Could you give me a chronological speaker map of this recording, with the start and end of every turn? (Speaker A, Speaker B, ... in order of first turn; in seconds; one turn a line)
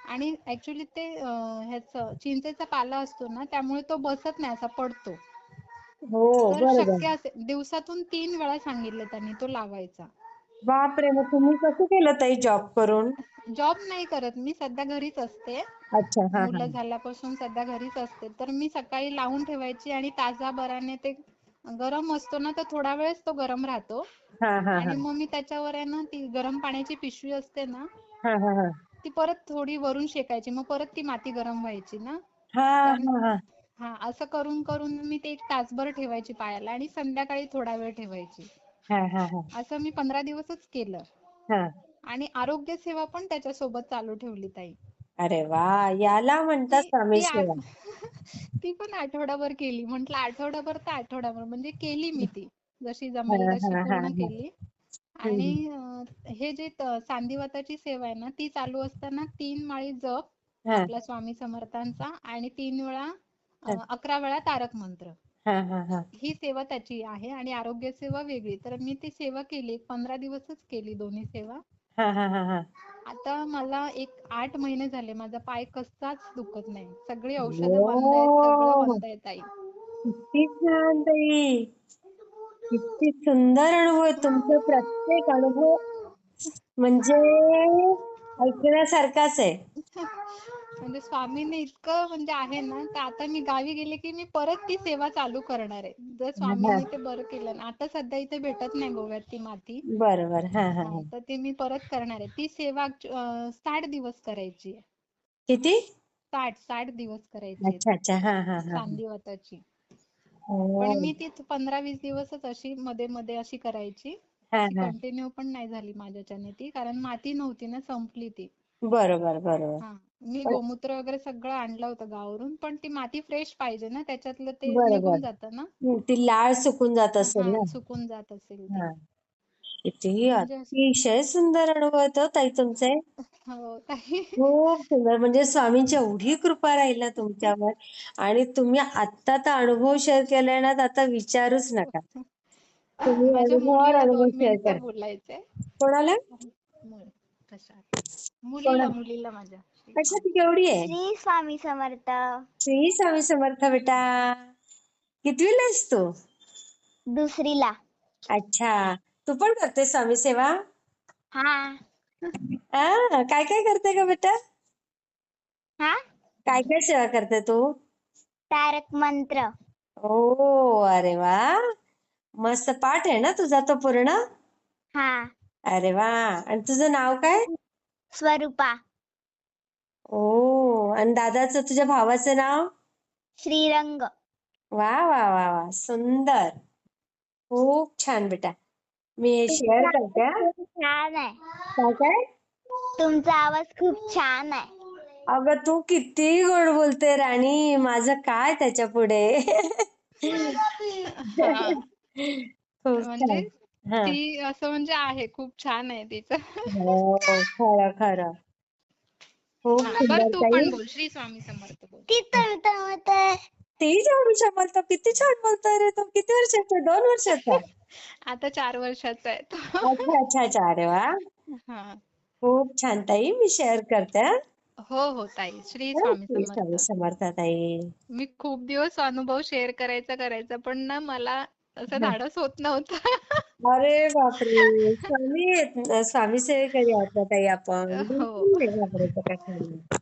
Speaker A: 0.1-5.2
Speaker B: 6.1-7.1
Speaker A: 6.5-10.1
Speaker B: 10.7-13.1
Speaker A: 13.5-15.6
Speaker B: 15.9-16.7
Speaker A: 16.3-24.0
Speaker B: 24.4-25.0
Speaker A: 24.8-27.9
Speaker B: 28.2-28.7
Speaker A: 29.0-32.2
Speaker B: 32.5-33.4
Speaker A: 32.8-33.2
Speaker A: 33.8-38.5
Speaker B: 38.9-39.5
Speaker A: 39.5-41.0
Speaker A: 42.1-44.8
Speaker B: 45.2-47.6
Speaker A: 46.7-54.5
Speaker B: 53.3-54.3
Speaker A: 55.2-63.1
Speaker B: 55.3-55.5
Speaker A: 63.6-65.1
Speaker B: 65.5-66.1
Speaker A: 66.2-71.6
Speaker B: 72.0-72.7
Speaker A: 73.1-79.5
Speaker B: 77.4-79.0
Speaker B: 80.0-81.6
Speaker B: 82.7-85.8
Speaker C: 84.4-84.9
Speaker B: 86.8-89.6
Speaker A: 89.9-90.2
Speaker A: 90.8-99.8
Speaker B: 96.4-96.8
Speaker B: 99.9-101.1
Speaker A: 100.8-104.8
Speaker B: 105.5-105.8
Speaker A: 106.3-107.9
Speaker B: 107.6-109.0
Speaker A: 108.7-109.6
Speaker B: 110.5-111.1
Speaker A: 110.8-114.2
Speaker B: 114.5-114.9
Speaker A: 114.7-118.5
Speaker B: 118.9-119.8
Speaker A: 119.8-125.7
Speaker B: 124.7-125.2
Speaker B: 125.8-127.7
Speaker A: 127.2-128.9
Speaker B: 129.8-133.0
Speaker A: 130.3-130.8
Speaker A: 133.5-134.4
Speaker B: 134.4-142.0
Speaker A: 143.0-145.4
Speaker B: 143.1-144.8
Speaker B: 145.8-146.2
Speaker A: 146.4-147.8
Speaker A: 148.5-150.2
Speaker B: 148.7-148.9
Speaker B: 149.9-150.9
Speaker C: 150.8-152.4
Speaker B: 152.6-154.4
Speaker B: 155.2-156.0
Speaker C: 157.1-157.7
Speaker B: 158.3-160.5
Speaker C: 161.3-161.8
Speaker B: 162.7-164.3
Speaker B: 166.5-167.6
Speaker C: 168.5-169.5
Speaker B: 170.0-171.4
Speaker B: 172.4-174.2
Speaker C: 174.9-175.3
Speaker B: 175.7-177.4
Speaker C: 178.1-178.8
Speaker B: 180.1-182.7
Speaker C: 183.4-184.1
Speaker B: 184.8-186.5
Speaker B: 187.5-188.5
Speaker B: 189.2-190.4
Speaker C: 189.5-191.4
Speaker B: 191.8-192.2
Speaker C: 193.0-194.7
Speaker B: 195.3-199.7
Speaker B: 200.2-200.6
Speaker A: 201.1-201.8
Speaker B: 201.4-204.2
Speaker A: 203.0-203.5
Speaker A: 204.0-206.7
Speaker B: 206.7-208.3
Speaker B: 209.6-210.7
Speaker A: 209.8-212.1
Speaker C: 212.1-213.4
Speaker B: 213.8-217.6
Speaker A: 218.3-220.1
Speaker B: 219.8-221.1
Speaker A: 221.7-222.0
Speaker B: 222.4-224.3
Speaker A: 224.9-226.8
Speaker B: 226.0-227.9
Speaker A: 228.1-233.4
Speaker B: 233.7-239.8
Speaker A: 234.5-235.1
Speaker A: 237.9-238.6